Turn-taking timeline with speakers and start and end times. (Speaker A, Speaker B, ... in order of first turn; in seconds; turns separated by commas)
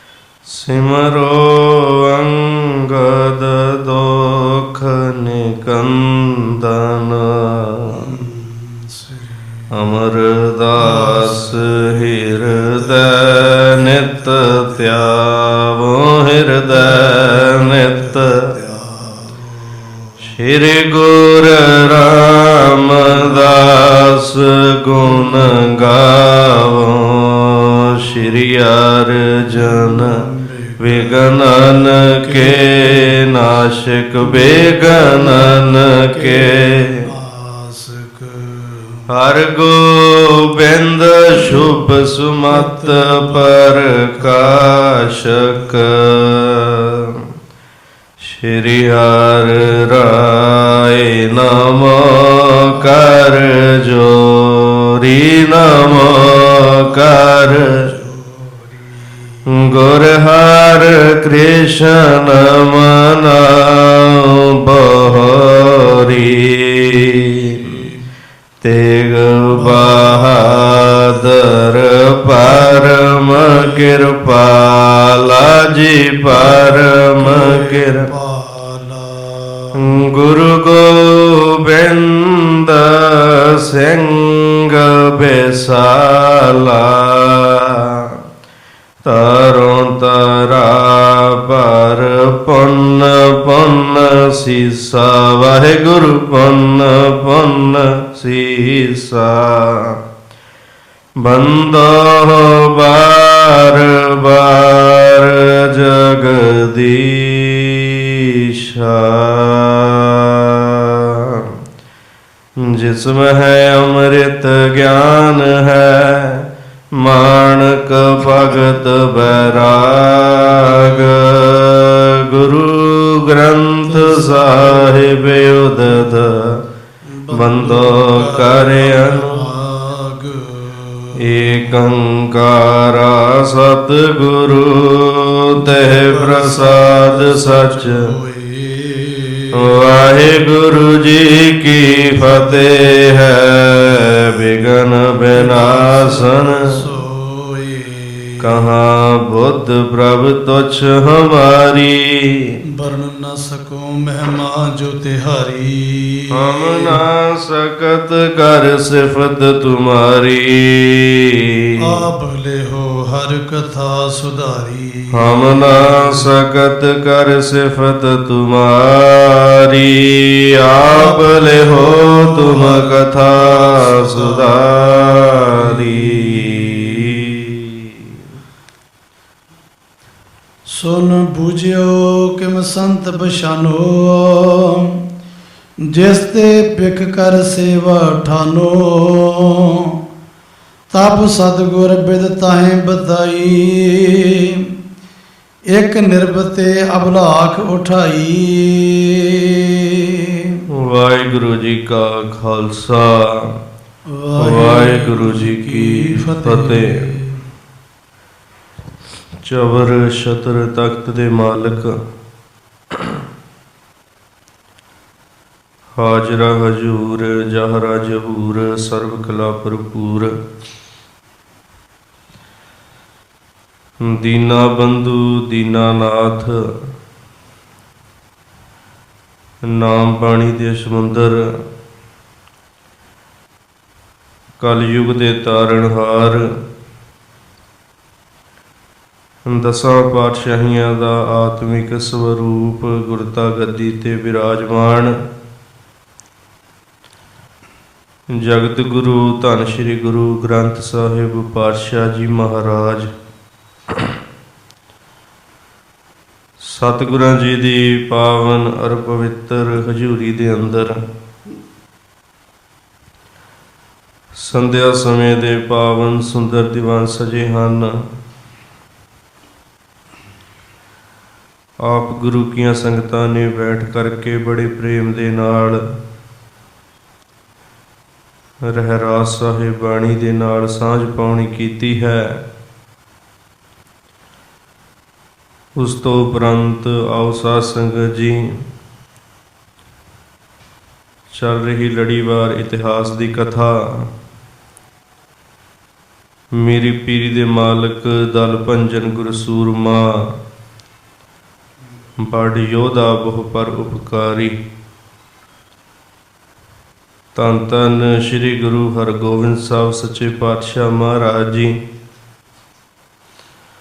Speaker A: 0.5-8.1, Speaker B: 8.0-9.7, Speaker A: 9.7-18.6, Speaker B: 10.8-15.0, Speaker B: 16.7-20.1, Speaker A: 20.2-30.2, Speaker B: 22.9-23.6, Speaker B: 25.2-25.6, Speaker B: 29.5-31.3, Speaker A: 30.8-37.1, Speaker B: 32.2-33.3, Speaker B: 34.2-39.0, Speaker A: 39.1-47.2, Speaker B: 41.3-41.8, Speaker B: 42.5-44.7, Speaker B: 45.2-45.8, Speaker A: 48.2-57.9, Speaker B: 55.9-59.4, Speaker A: 59.5-67.8, Speaker B: 67.5-68.0, Speaker A: 68.6-78.1, Speaker B: 69.5-71.4, Speaker B: 72.4-73.9, Speaker B: 76.3-80.0, Speaker A: 79.7-88.1, Speaker A: 89.0-100.0, Speaker A: 101.2-111.5, Speaker A: 112.6-126.6, Speaker B: 120.5-121.1, Speaker B: 123.9-125.1, Speaker B: 127.0-131.8, Speaker A: 127.3-129.5, Speaker A: 131.1-138.1, Speaker B: 135.5-139.6, Speaker A: 139.5-146.8, Speaker B: 142.1-142.7, Speaker B: 145.3-148.7, Speaker A: 148.4-152.6, Speaker B: 152.7-157.0, Speaker A: 156.3-161.7, Speaker B: 161.8-166.3, Speaker A: 165.1-178.0, Speaker B: 170.9-177.4, Speaker B: 180.7-185.0, Speaker B: 185.9-189.9, Speaker B: 190.9-194.7, Speaker B: 195.7-200.6, Speaker A: 200.8-203.6, Speaker B: 204.1-207.4, Speaker A: 204.4-207.1, Speaker A: 209.4-212.0, Speaker A: 216.0-220.4, Speaker A: 224.0-226.6, Speaker A: 229.6-231.5, Speaker A: 234.6-236.5, Speaker A: 239.4-245.1, Speaker A: 248.3-253.1, Speaker A: 256.6-261.0, Speaker A: 264.3-268.1, Speaker A: 271.8-275.9, Speaker A: 278.6-282.4, Speaker A: 285.8-288.6, Speaker A: 291.3-294.1, Speaker A: 296.5-300.4, Speaker A: 302.2-304.6, Speaker A: 307.3-311.8